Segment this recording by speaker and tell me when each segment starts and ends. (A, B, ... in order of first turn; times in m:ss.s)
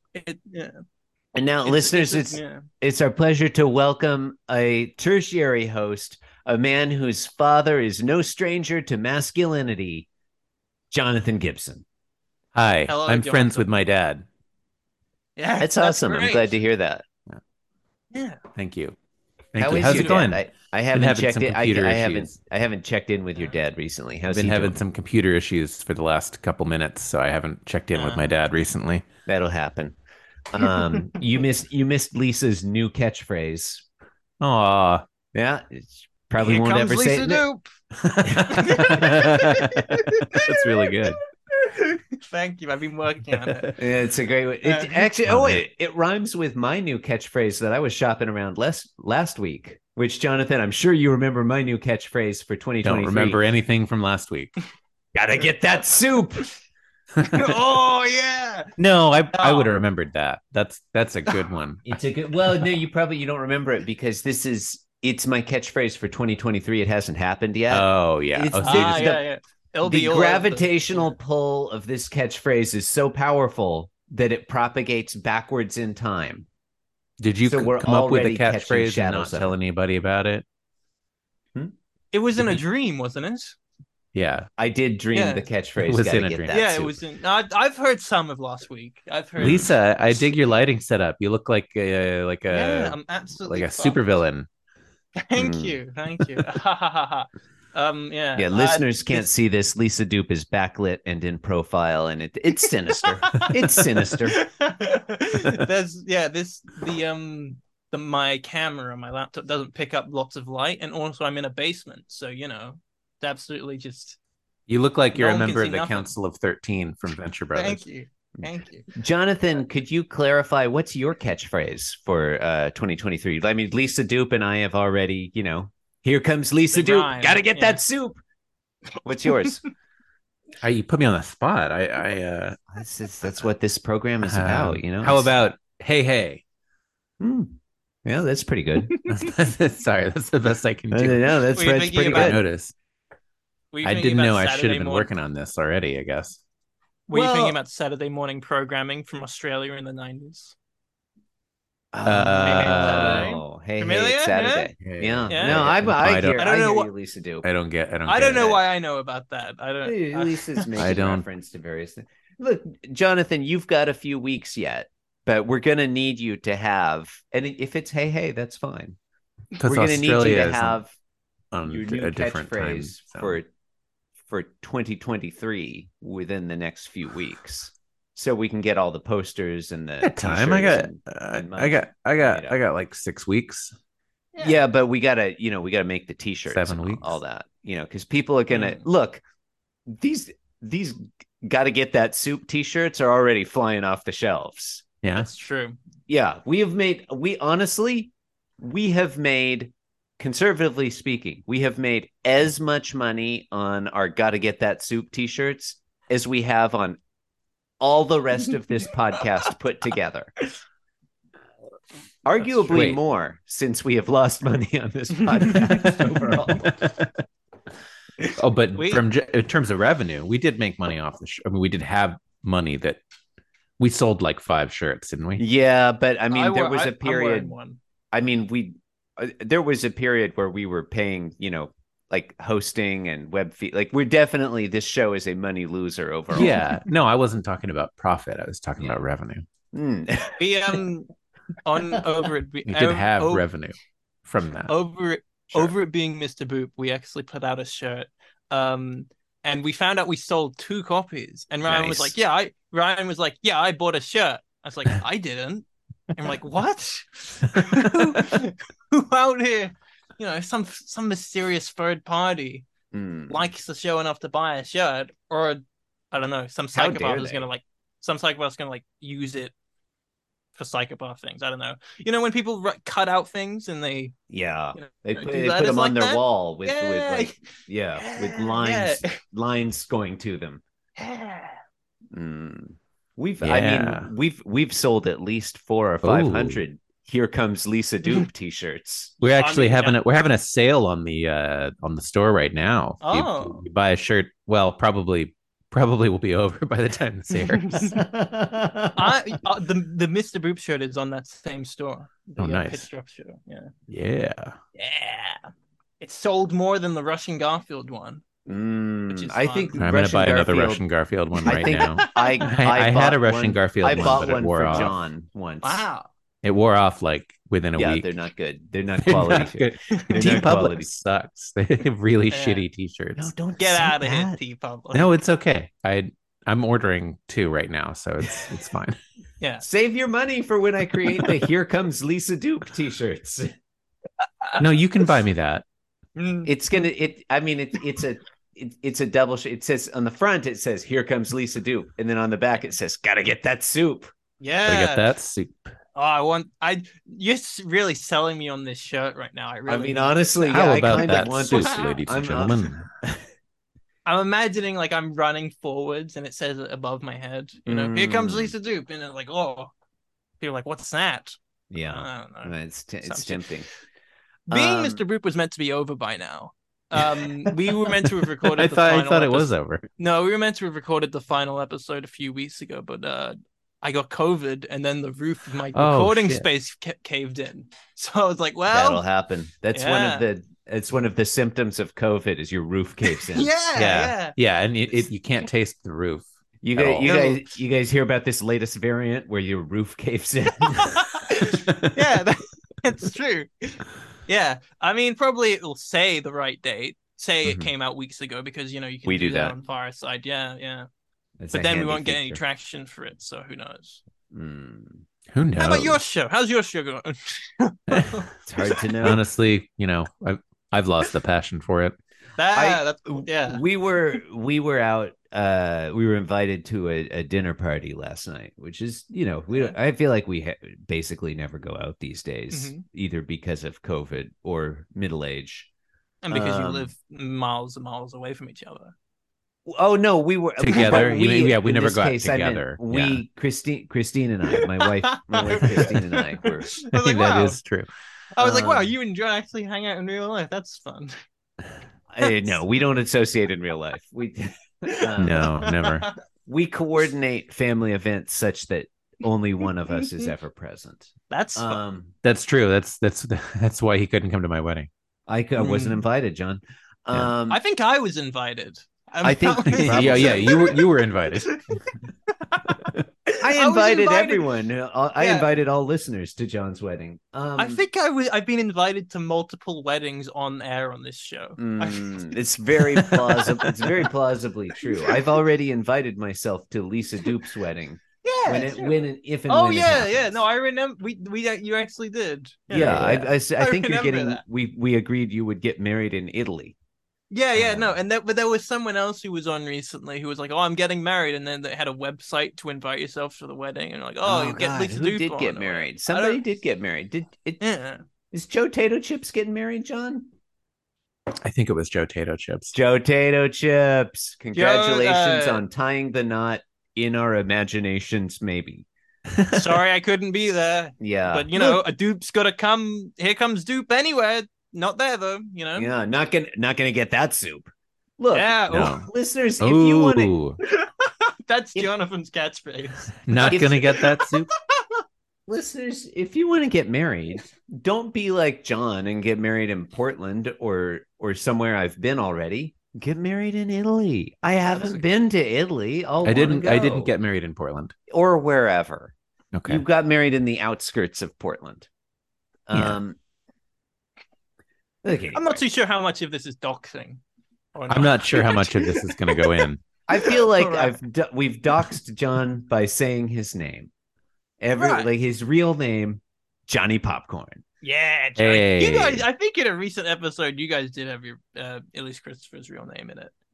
0:00.1-0:00.8 A
0:01.3-0:10.1 B
0:01.6-0:02.6 A
0:10.9-0:11.8 B
0:12.5-0:14.2 C
0:12.9-0:13.7 A
0:15.4-0:16.6 A
0:15.6-0:17.0 B
0:18.1-0:18.4 A
0:18.5-0:18.9 C
0:19.5-0:20.4 C
0:19.6-0:24.8 B
0:19.8-0:20.2 A
0:20.9-0:22.3 C
0:24.3-0:29.0 C
0:27.9-0:28.3 A
0:29.3-0:30.0 B
0:30.5-0:33.8 B
0:34.4-0:35.0 C
0:35.3-0:37.4 B
0:36.4-0:37.7 A
0:38.0-0:41.2 C
0:38.2-0:39.1 B
0:38.4-0:43.7 A
0:43.5-0:43.7 C
0:43.8-0:53.4 B
0:44.6-0:45.0 A
0:45.2-0:45.6 C
0:52.8-0:54.5 C
0:55.1-0:56.5 B
0:57.2-0:58.7 A
0:58.8-1:01.9 C
0:59.3-0:59.7 A
1:01.8-1:09.2 B
1:07.7-1:09.0 C
1:08.6-1:11.1 A
1:09.8-1:16.5 B
1:17.2-1:20.4 C
1:17.4-1:19.5 B
1:22.1-1:23.6 A
1:22.4-1:22.6 C
1:24.1-1:24.5 C
1:24.6-1:26.9 B
1:25.1-1:25.4 A
1:25.8-1:26.8 C
1:26.5-1:29.7 A
1:29.4-1:29.7 B
1:29.4-1:34.5 C
1:32.5-1:34.0 A
1:35.2-1:39.2 A
1:35.4-1:35.8 B
1:38.4-1:44.4 B
1:43.2-1:54.2 A
1:54.7-1:57.8 C
1:55.1-1:56.1 A
1:57.5-1:58.9 A
1:58.9-2:08.2 B
2:06.7-2:07.8 A
2:09.0-2:09.6 B
2:10.6-2:12.6 C
2:12.7-2:15.3 B
2:14.2-2:16.4 C
2:17.2-2:19.0 B
2:18.9-2:19.3 A
2:19.1-2:21.4 C
2:20.9-2:22.4 B
2:21.6-2:22.4 A
2:22.1-2:22.7 C
2:23.7-2:25.1 A
2:23.8-2:26.4 C
2:27.1-2:30.5 A
2:27.1-2:27.6 B
2:31.9-2:37.5 B
2:32.0-2:33.3 C
2:32.4-2:34.7 A
2:34.8-2:36.4 C
2:35.3-2:35.7 A
2:36.4-2:36.9 A
2:37.4-2:38.6 C
2:38.1-2:40.8 A
2:39.8-2:49.0 B
2:40.8-2:41.2 C
2:49.6-2:50.8 C
2:49.6-2:50.9 B
2:51.5-2:53.4 C
2:51.6-2:53.5 B
2:54.3-3:02.6 B
3:00.0-3:03.7 C
3:04.3-3:04.6 A
3:04.4-3:09.2 B
3:06.5-3:07.2 C
3:08.5-3:08.8 A
3:09.9-3:14.9 B
3:15.0-3:15.3 C
3:15.2-3:15.8 A
3:16.1-3:27.0 B
3:27.8-3:30.3 B
3:32.2-3:36.8 B
3:32.7-3:33.0 C
3:35.8-3:36.0 C
3:36.7-3:37.1 C
3:38.4-3:43.0 C
3:38.7-3:39.0 A
3:43.8-3:45.4 C
3:45.4-3:47.5 B
3:46.3-3:47.8 A
3:48.1-3:56.6 B
3:56.3-3:59.4 C
3:59.7-4:00.4 B
4:00.4-4:01.1 A
4:01.6-4:03.4 A
4:02.6-4:03.7 C
4:04.2-4:04.7 C
4:04.7-4:22.7 A
4:11.7-4:12.1 C
4:22.9-4:23.5 B
4:23.3-4:29.5 A
4:26.7-4:27.4 B
4:30.5-4:34.1 A
4:34.3-4:40.6 B
4:34.7-4:37.4 A
4:38.0-4:39.2 A
4:41.0-4:41.6 A
4:42.1-4:49.1 B
4:43.4-4:44.1 C
4:46.0-4:46.6 C
4:49.2-4:58.0 C
4:49.3-4:50.0 A
4:53.0-4:53.6 A
4:57.3-4:58.0 A
4:57.9-4:59.2 B
4:58.9-5:03.7 A
5:02.4-5:02.9 C
5:03.9-5:04.6 C
5:04.7-5:05.5 A
5:06.0-5:08.2 A
5:08.4-5:10.8 B
5:09.1-5:09.8 A
5:09.8-5:14.9 C
5:11.4-5:15.8 B
5:11.5-5:12.4 A
5:15.6-5:16.1 A
5:16.4-5:18.1 C
5:17.8-5:20.9 B
5:19.0-5:23.3 C
5:22.3-5:22.6 A
5:23.2-5:24.4 B
5:23.6-5:25.1 A
5:24.9-5:29.0 C
5:29.6-5:33.5 B
5:34.6-5:35.6 C
5:36.2-5:36.5 A
5:36.4-5:44.1 B
5:44.4-5:45.1 A
5:44.6-5:45.7 C
5:45.9-5:51.9 A
5:49.7-5:52.8 B
5:50.5-5:53.2 C
5:54.0-5:59.7 A
5:57.7-5:58.5 B
6:00.4-6:03.5 A
6:01.7-6:03.6 B
6:04.5-6:19.0 A
6:04.5-6:05.0 B
6:08.0-6:09.8 C
6:15.7-6:16.5 C
6:18.7-6:23.5 B
6:19.7-6:20.2 A
6:23.1-6:24.3 A
6:23.8-6:27.1 C
6:26.6-6:31.2 B
6:27.0-6:27.4 A
6:30.7-6:40.9 A
6:39.0-6:39.5 B
6:41.4-6:42.4 B
6:41.5-6:44.0 A
6:44.3-6:45.0 B
6:45.3-6:46.0 C
6:45.6-6:48.9 A
6:48.4-6:49.2 B
6:49.0-6:52.0 C
6:52.4-6:53.6 A
6:52.5-7:05.7 B
7:02.5-7:02.8 A
7:06.2-7:08.9 A
7:06.3-7:06.9 B
7:09.6-7:16.8 B
7:10.6-7:13.2 C
7:10.7-7:11.0 A
7:14.5-7:17.6 A
7:16.9-7:17.9 C
7:18.4-7:21.1 A
7:18.4-7:18.9 B
7:22.1-7:25.5 B
7:22.2-7:22.6 A
7:24.9-7:26.1 A
7:25.2-7:26.1 C
7:26.5-7:32.1 B
7:31.3-7:31.8 A
7:32.2-7:34.9 C
7:35.3-7:37.6 B
7:35.6-7:36.0 A
7:37.5-7:41.8 A
7:39.2-7:40.8 B
7:39.7-7:41.6 C
7:42.4-7:44.4 A
7:43.4-7:47.8 B
7:45.2-7:45.5 A
7:47.6-7:54.0 A
7:51.6-8:00.4 B
7:58.2-8:04.4 A
8:02.7-8:06.8 B
8:07.3-8:16.4 A
8:07.5-8:08.0 B
8:14.2-8:17.6 B
8:17.6-8:18.0 A
8:18.3-8:20.3 B
8:21.4-8:22.7 C
8:22.7-8:28.8 B
8:24.5-8:25.6 A
8:29.3-8:29.7 C
8:29.5-8:35.9 A
8:31.0-8:31.8 B
8:35.8-8:40.3 B
8:38.3-8:39.0 A
8:38.7-8:39.1 C
8:39.6-8:40.6 C
8:40.6-8:44.8 A
8:43.3-8:44.5 C
8:43.4-8:43.8 B
8:45.5-8:57.1 B
8:54.7-8:55.0 A
8:56.2-8:57.9 C
8:58.1-8:59.1 B
8:59.5-8:59.8 C
8:59.7-9:01.9 B
9:02.7-9:03.2 B
9:02.7-9:03.0 C
9:05.0-9:05.6 B
9:05.3-9:07.2 A
9:07.7-9:09.6 A
9:07.9-9:09.8 C
9:10.1-9:13.9 B
9:10.2-9:11.0 A
9:14.6-9:17.6 B
9:14.7-9:15.1 A
9:17.8-9:23.3 A
9:18.4-9:19.2 C